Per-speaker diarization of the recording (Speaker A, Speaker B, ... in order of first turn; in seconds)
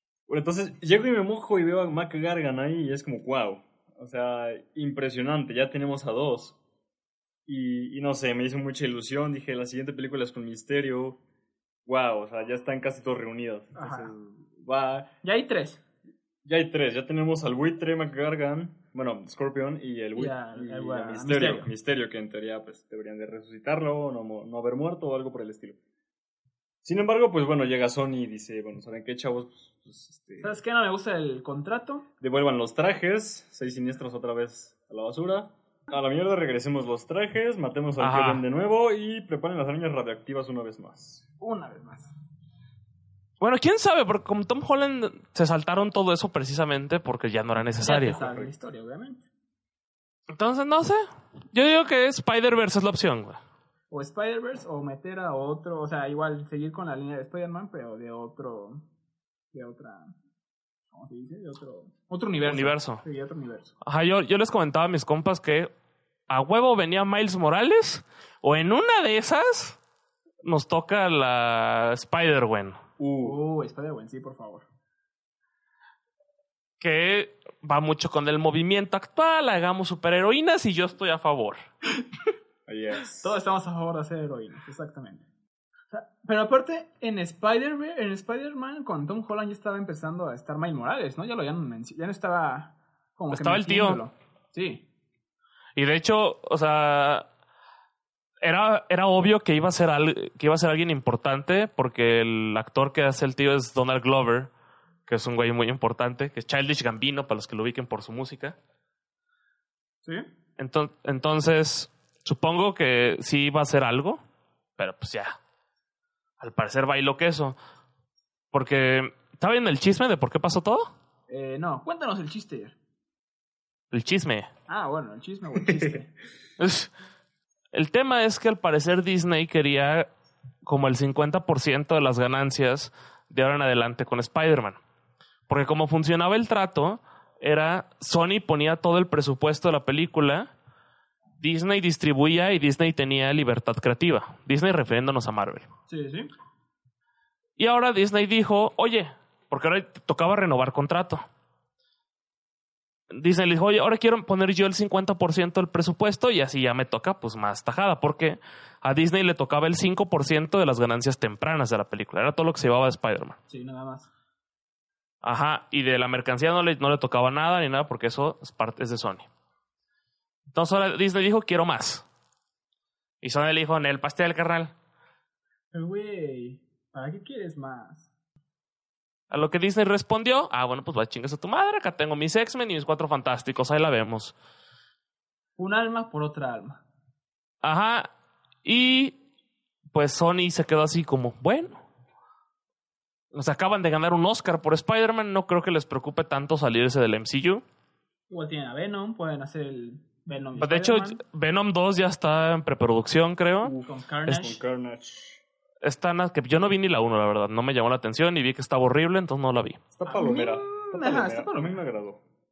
Speaker A: 0.3-6.6, 7.5-11.2, 11.9-15.1, 16.4-25.8, 26.8-30.5, 32.2-41.2, 47.9-48.5, 73.0-73.4, 82.7-83.3, 203.6-205.4, 209.9-212.2
Speaker B: 13.8-14.1, 15.2-15.8, 20.2-21.7, 30.4-32.1, 41.4-42.1, 47.8-49.2, 53.9-58.8, 59.5-60.1, 60.9-63.7, 73.2-74.7, 83.2-85.2, 85.9-94.8, 121.3-122.8, 124.7-126.1, 145.9-146.3, 163.5-164.1, 175.7-178.1, 185.6-186.8, 198.3-201.2, 203.8-204.6, 210.1-211.8
Speaker C: 38.0-38.4, 43.4-48.2, 50.3-53.4, 62.5-63.0, 63.8-65.7, 66.3-69.8, 70.4-72.8, 76.8-81.6, 93.3-94.0, 95.8-97.3, 98.4-104.5, 105.1-108.6, 110.6-114.2, 114.8-115.4, 116.4-117.6, 118.5-120.9, 123.9-124.5, 126.6-126.9, 127.7-130.1, 130.6-134.8, 135.5-140.5, 141.4-145.7, 147.6-151.2, 153.1-163.4, 165.2-169.3, 170.5-172.1, 173.2-174.7, 179.3-184.3, 187.6-188.1, 188.6-189.2, 189.9-191.8, 193.3-197.6, 200.6-203.7, 205.8-209.8